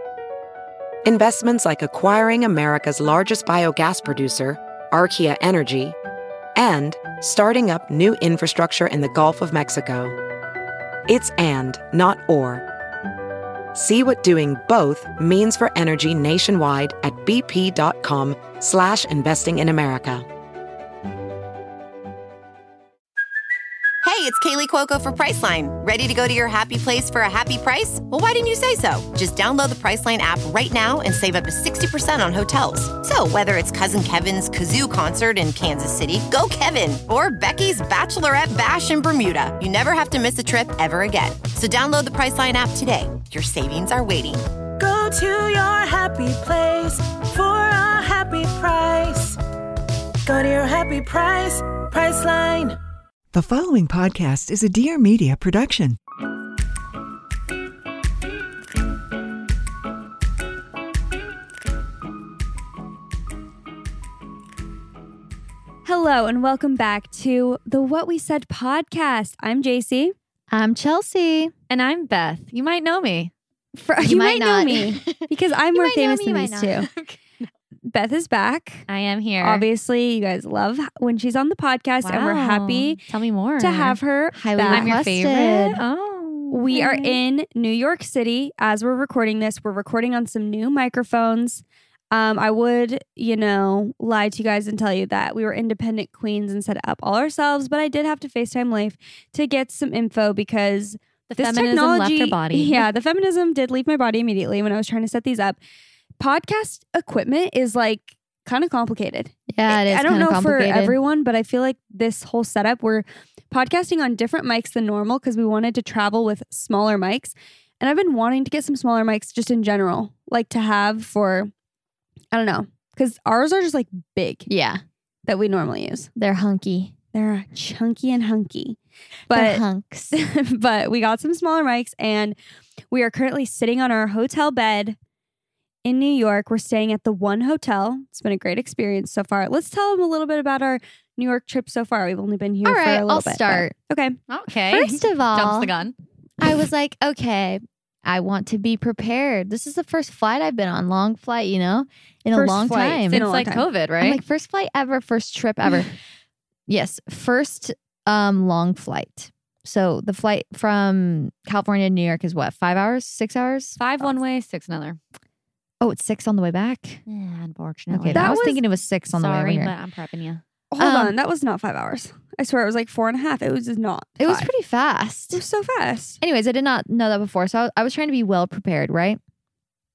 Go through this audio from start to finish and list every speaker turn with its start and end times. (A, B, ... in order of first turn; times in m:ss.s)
0:01.0-0:06.0 A
0:06.6-0:10.2 A
0:11.1-0:12.6 A
0:13.7-0:20.3 A
0:24.0-0:44.4 B
0:44.8-0:49.4 C
0:50.3-0:52.8 C
0:53.3-0:56.0 D
1:05.8-1:10.1 E
1:10.5-1:11.5 F
1:11.7-1:13.3 G
1:13.8-1:16.9 E
1:14.0-1:16.9 F
1:16.9-1:17.2 G
1:17.9-1:18.8 E
1:18.9-1:19.6 G
1:19.4-1:23.0 E
1:22.0-1:24.0 G
1:23.6-1:25.0 E
1:24.4-1:25.8 F
1:24.7-1:27.2 G
1:26.5-1:45.6 E
1:41.3-1:42.9 G
1:46.2-2:01.5 E
1:49.5-1:51.0 F
2:02.3-2:04.5 E
2:04.5-2:04.8 F
2:05.3-2:06.1 E
2:06.2-2:06.9 F
2:07.1-2:08.8 E
2:09.3-2:10.1 F
2:09.3-2:12.4 E
2:12.9-2:15.0 E
2:15.8-2:24.2 E
2:22.6-2:23.7 F
2:24.3-2:25.9 G
2:24.7-2:25.7 F
2:26.4-2:33.3 F
2:32.3-2:33.6 E
2:33.1-2:34.2 G
2:34.0-2:35.9 F
2:36.7-2:44.1 F
2:43.8-2:45.0 G
2:45.8-2:47.0 F
2:47.1-2:48.6 G
2:47.9-2:49.7 F
2:48.1-2:48.6 E
2:49.1-2:50.4 G
2:50.7-2:54.5 E
2:50.8-2:51.2 F
2:54.2-2:55.4 F
2:55.3-2:56.2 E
2:56.2-2:59.2 F